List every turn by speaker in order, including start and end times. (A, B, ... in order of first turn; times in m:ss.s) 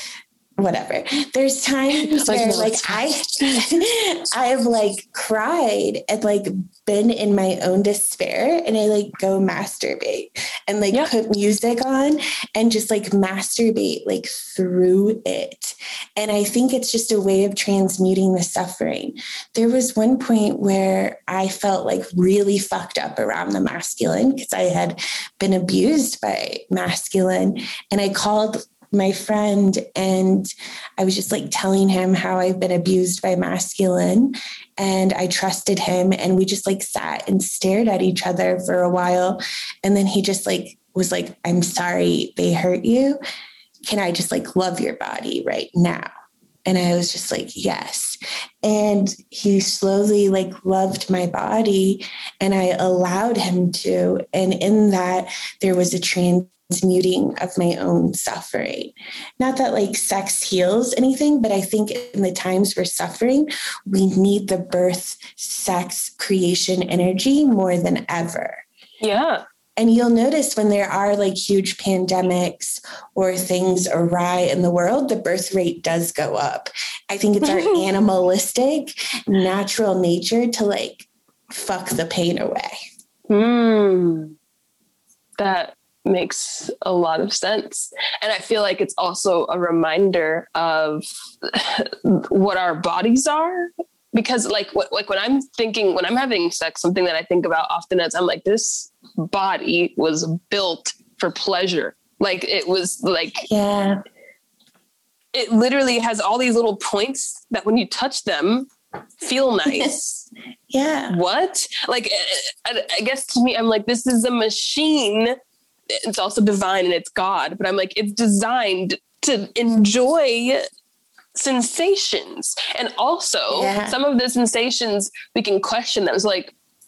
0:00.6-0:43.2 A
0:01.9-0:03.6 B
0:43.9-0:46.1 A
0:46.7-1:08.6 A
1:09.0-1:09.4 B
1:09.8-1:22.8 A
1:17.4-1:17.9 B
1:23.3-1:24.4 B
1:25.4-1:43.5 B
1:43.5-1:44.0 A
1:45.3-1:48.7 B
1:49.2-1:50.3 B
1:50.7-1:51.2 A
1:51.1-1:55.4 B
1:56.0-2:00.7 B
2:01.4-2:06.5 B
2:03.5-2:04.0 A